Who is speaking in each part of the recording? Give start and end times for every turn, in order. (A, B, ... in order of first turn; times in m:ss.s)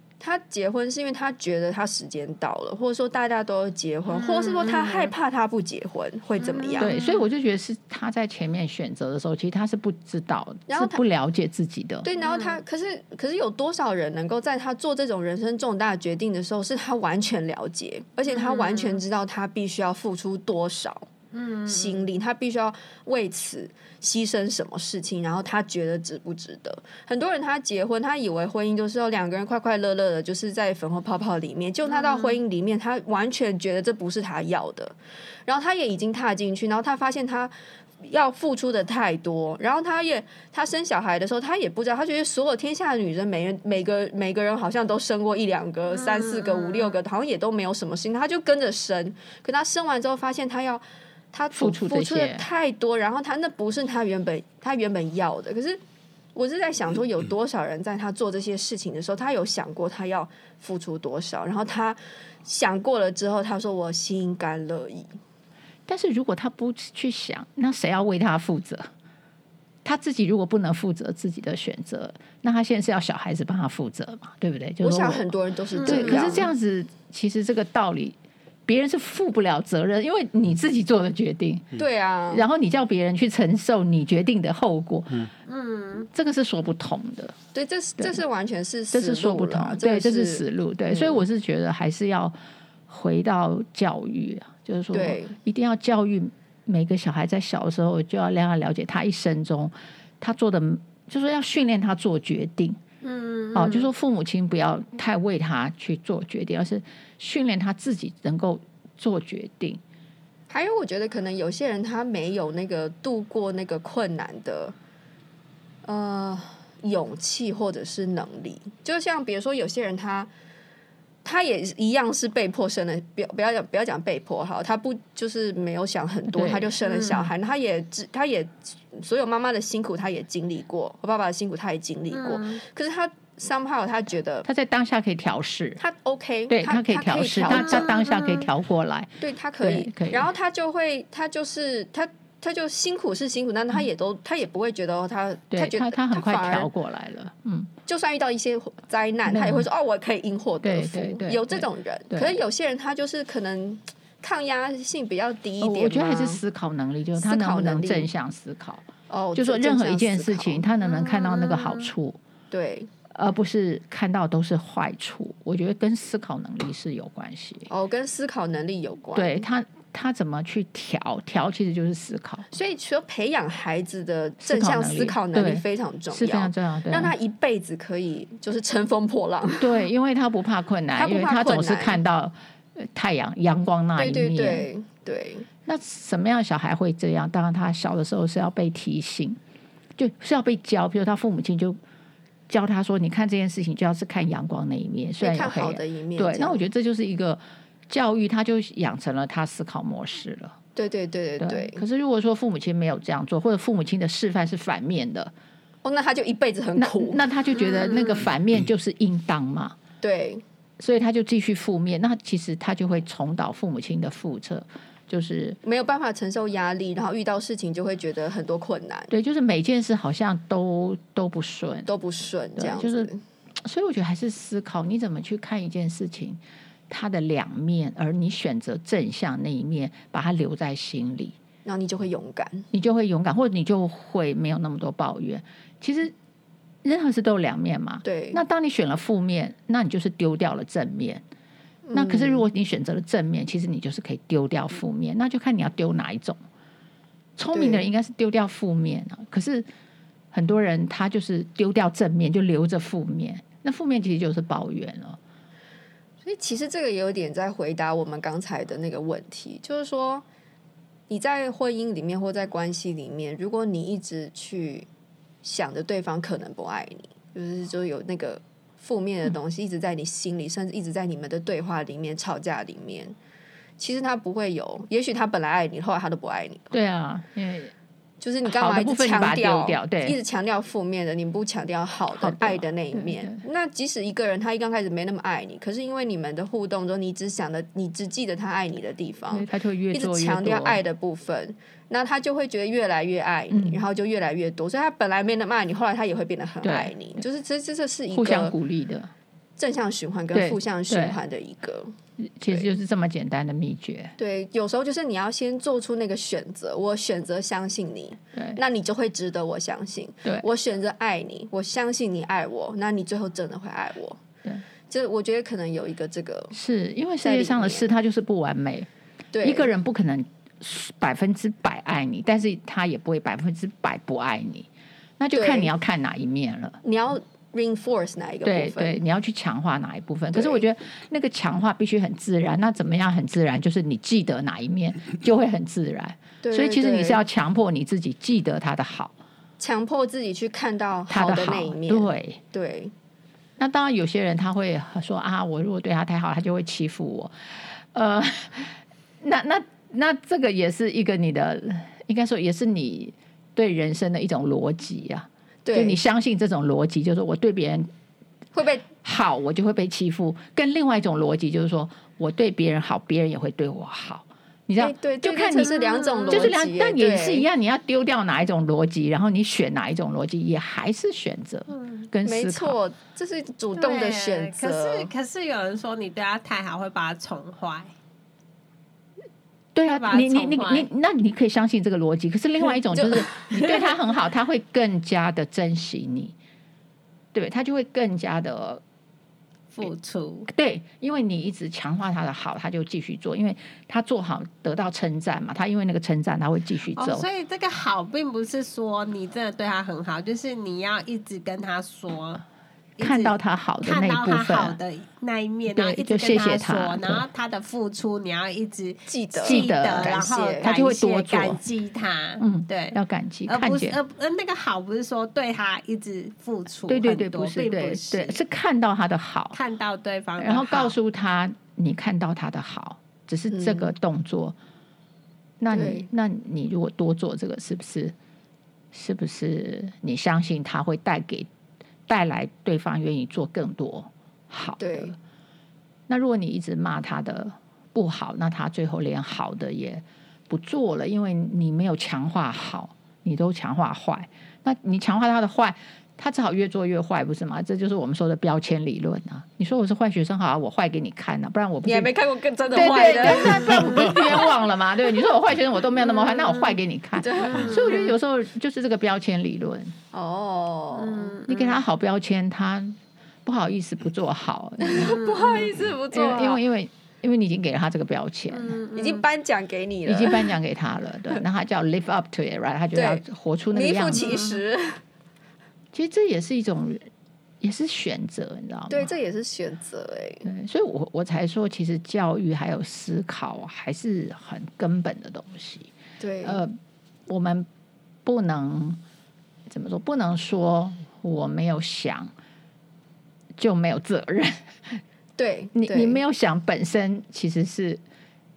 0:00.2-0:06.9 A
0:04.1-0:05.1 B
0:06.4-0:07.2 B
0:06.8-0:12.1 C
0:10.7-0:11.0 A
0:12.0-0:21.1 A
0:12.2-0:12.6 B
0:18.3-0:19.0 B
0:21.3-0:22.1 B
0:21.7-0:55.8 A
0:31.9-0:32.4 B
0:45.9-0:47.0 B
0:51.5-0:52.5 C
0:56.4-1:05.1 A
1:05.9-1:08.9 C
1:09.8-1:15.3 C
1:14.8-1:16.5 A
1:15.8-1:16.3 B
1:15.8-1:21.7 C
1:21.8-1:22.4 A
1:22.3-1:25.3 C
1:25.5-1:26.1 B
1:26.1-1:27.4 C
1:27.5-1:31.2 A
1:28.9-1:32.4 C
1:32.9-1:42.8 C
1:34.9-1:35.4 A
1:43.0-1:43.9 B
1:43.5-1:49.8 C
1:50.5-1:54.8 A
1:55.8-2:00.3 A
2:01.2-2:14.5 A
2:06.3-2:07.2 C
2:06.8-2:07.3 B
2:12.1-2:12.6 B
2:14.4-2:15.8 C
2:15.8-2:17.9 A
2:16.5-2:20.3 C
2:17.5-2:18.5 B
2:19.2-2:26.7 A
2:25.5-2:27.7 C
2:27.9-2:36.4 A
2:29.3-2:29.7 C
2:30.6-2:32.4 C
2:35.6-2:42.2 C
2:37.2-2:38.1 A
2:39.1-2:40.6 A
2:40.8-2:41.9 B
2:42.5-2:42.9 A
2:43.1-2:47.7 C
2:47.7-2:49.4 A
2:49.2-2:52.5 C
2:52.5-2:59.8 A
2:54.4-2:57.1 C
2:59.6-3:04.7 C
3:00.9-3:02.0 A
3:04.0-3:05.5 A
3:05.7-3:09.4 C
3:10.0-3:11.8 C
3:12.5-3:20.6 C
3:15.2-3:16.6 A
3:20.8-3:21.8 A
3:21.4-3:25.3 C
3:25.8-3:27.2 A
3:26.8-3:29.8 C
3:27.6-3:28.3 B
3:30.0-3:30.4 A
3:30.8-3:35.6 C
3:35.6-3:39.1 A
3:39.1-3:41.9 C
3:41.9-3:43.2 A
3:42.6-3:43.1 C
3:43.6-3:51.4 C
3:51.6-3:52.7 A
3:52.7-3:56.1 C
3:56.8-4:01.2 C
3:58.0-3:58.4 A
4:01.9-4:02.5 A
4:01.9-4:06.4 C
4:07.4-4:09.7 C
4:07.5-4:07.8 A
4:10.3-4:15.2 C
4:16.2-4:20.2 A
4:21.1-4:24.9 A
4:25.4-4:33.2 A
4:33.8-4:36.7 A
4:36.7-4:37.7 C
4:38.2-4:58.5 A
4:38.4-4:40.2 C
4:42.1-4:43.4 C
4:49.3-4:50.8 C
4:53.5-4:53.8 C
4:56.6-4:56.9 C
4:58.1-4:59.1 C
4:59.6-5:01.9 A
5:00.3-5:01.2 C
5:02.2-5:04.2 C
5:02.5-5:02.7 A
5:04.2-5:14.2 A
5:08.4-5:08.6 C
5:14.9-5:16.5 A
5:16.5-5:18.9 C
5:17.2-5:17.9 A
5:19.3-5:19.7 A
5:19.4-5:24.7 C
5:25.2-5:26.8 C
5:25.4-5:25.7 A
5:26.8-5:29.0 A
5:28.4-5:39.1 C
5:30.3-5:30.6 A
5:36.4-5:37.2 A
5:39.6-5:42.9 A
5:41.1-5:42.4 C
5:43.6-5:57.9 C
5:55.6-5:56.0 A
5:58.5-5:58.9 A
5:59.0-6:05.8 C
6:04.8-6:07.5 A
6:05.6-6:06.5 B
6:06.3-6:12.8 C
6:11.7-6:12.1 B
6:12.2-6:15.1 A
6:13.8-6:17.9 B
6:19.8-6:26.4 C
6:19.9-6:20.9 B
6:27.3-6:28.8 C
6:29.7-6:30.5 B
6:30.5-6:37.2 C
6:37.0-6:42.4 B
6:43.0-6:58.4 B
6:43.0-6:44.8 C
6:45.7-6:47.3 C
6:49.1-6:50.7 A
6:49.4-6:51.6 C
6:52.4-6:54.0 C
6:56.9-6:59.6 C
6:59.5-7:01.0 B
7:00.4-7:04.6 C
7:03.5-7:03.9 A
7:05.6-7:08.1 C
7:05.7-7:06.1 A
7:08.9-7:11.5 C
7:12.1-7:15.2 C
7:14.8-7:15.2 A
7:16.1-7:32.1 C
7:31.8-7:34.5 A
7:32.7-7:40.0 C
7:36.1-7:36.8 B
7:37.2-7:38.1 A
7:37.5-7:38.1 B
7:40.1-7:41.4 A
7:41.0-7:41.8 B
7:41.5-7:45.2 C
7:44.8-7:46.6 A
7:45.0-7:45.8 B
7:46.1-7:48.8 C
7:48.5-7:49.2 B
7:49.0-7:50.6 A
7:50.1-7:54.4 C
7:52.9-7:55.0 A
7:54.2-7:54.6 B
7:55.9-7:57.1 C
7:57.6-7:59.1 C
7:58.9-8:00.5 A
8:00.4-8:05.9 C
8:06.2-8:06.6 A
8:06.4-8:06.8 C
8:07.3-8:07.7 C
8:08.2-8:09.0 C
8:09.7-8:12.3 C
8:13.6-8:15.0 C
8:15.4-8:16.2 A
8:15.8-8:18.0 C